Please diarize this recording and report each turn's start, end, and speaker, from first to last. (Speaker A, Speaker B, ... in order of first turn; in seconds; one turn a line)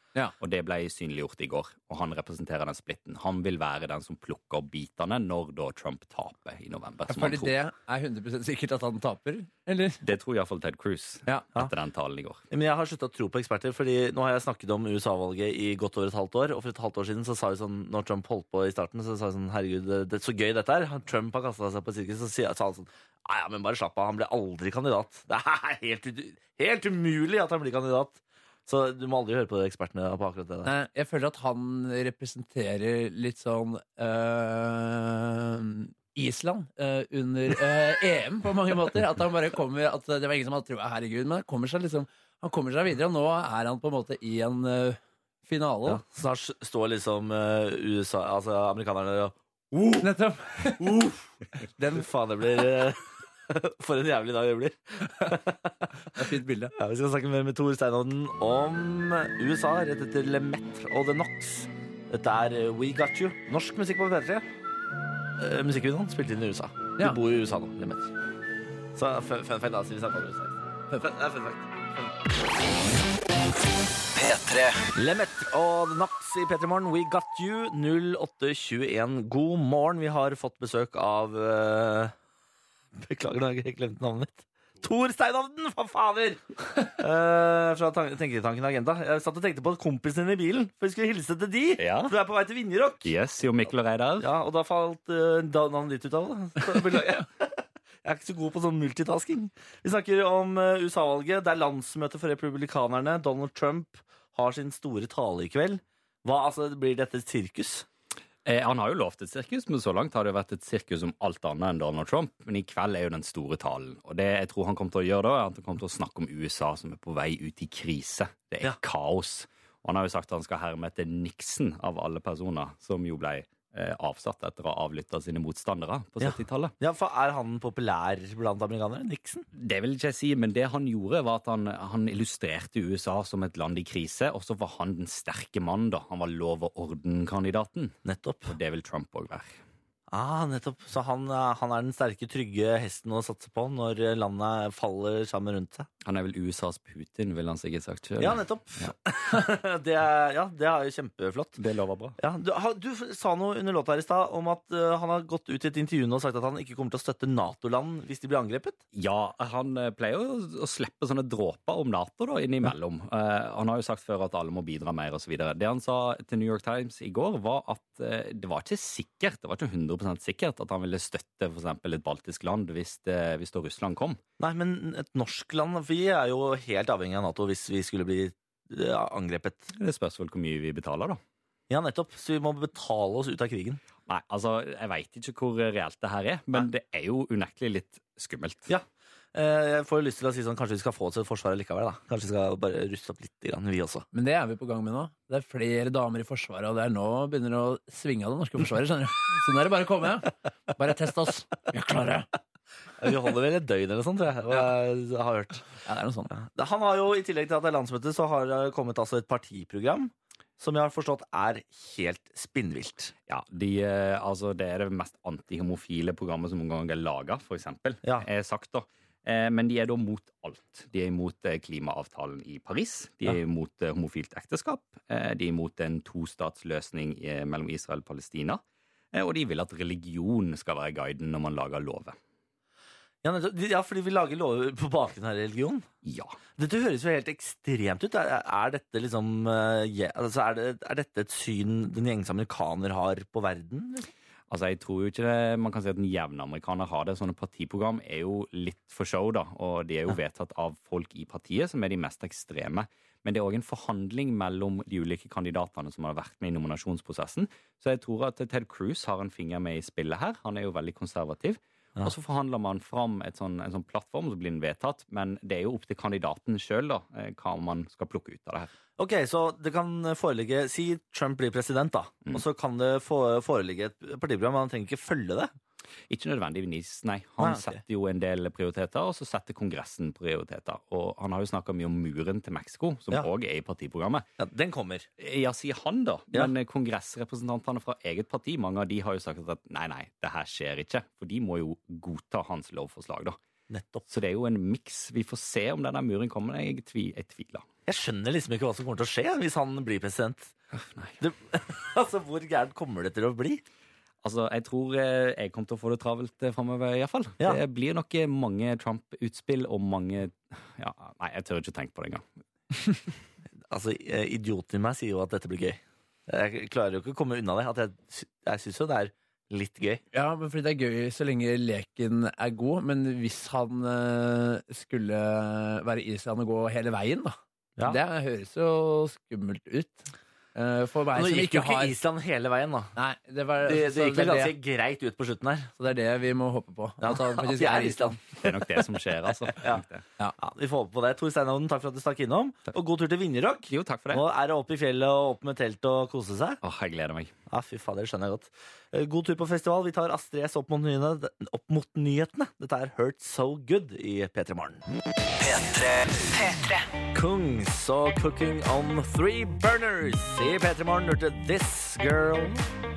Speaker A: 0.4-7.5
Speaker B: 7.1-10.0
Speaker A: 10.0-12.4
Speaker C: 12.5-30.7
Speaker B: 30.6-46.0
Speaker C: 45.9-50.1
Speaker B: 50.0-51.0
Speaker C: 50.7-51.3
Speaker B: 51.8-52.1
Speaker C: 51.9-56.2
Speaker B: 56.1-56.7
Speaker C: 56.8-64.5
Speaker C: 65.4-68.1
Speaker C: 69.0-71.8
Speaker D: 74.2-74.8
Speaker C: 75.0-82.1
Speaker C: 83.0-93.1
Speaker A: 91.8-92.1
Speaker A: 93.0-94.3
Speaker C: 94.2-107.9
Speaker A: 108.5-126.7
Speaker C: 126.2-129.5
Speaker A: 129.6-138.0
Speaker C: 138.1-138.6
Speaker A: 138.5-139.5
Speaker C: 140.1-145.9
Speaker A: 146.1-148.9
Speaker C: 148.2-151.6
Speaker A: 151.6-152.2
Speaker C: 152.2-158.8
Speaker A: 158.9-174.2
Speaker C: 174.4-179.7
Speaker A: 179.8-181.2
Speaker C: 181.7-183.8
Speaker A: 184.1-188.7
Speaker C: 188.7-194.1
Speaker B: 194.1-202.3
Speaker C: 203.0-205.7
Speaker B: 205.8-206.3
Speaker C: 206.3-213.1
Speaker A: 213.3-228.6
Speaker A: 229.1-232.2
Speaker C: 233.2-235.9
Speaker A: 236.1-236.4
Speaker C: 236.6-244.1
Speaker A: 244.5-268.7
Speaker C: 269.0-275.5
Speaker A: 276.1-284.2
Speaker C: 277.4-277.8
Speaker C: 284.4-285.1
Speaker A: 285.2-293.4
Speaker C: 293.7-294.1
Speaker A: 294.1-297.6
Speaker C: 297.9-300.5
Speaker A: 300.8-301.1
Speaker C: 301.2-303.6
Speaker A: 304.2-312.2
Speaker C: 313.7-320.0
Speaker B: 320.1-331.9
Speaker C: 331.1-332.9
Speaker B: 333.0-334.5
Speaker C: 333.6-335.7
Speaker B: 335.8-338.2
Speaker C: 337.0-338.8
Speaker A: 338.4-340.0
Speaker C: 339.5-339.9
Speaker C: 340.4-346.6
Speaker A: 343.7-344.2
Speaker A: 346.6-347.3
Speaker C: 347.5-354.8
Speaker D: 355.4-356.9
Speaker C: 357.1-362.7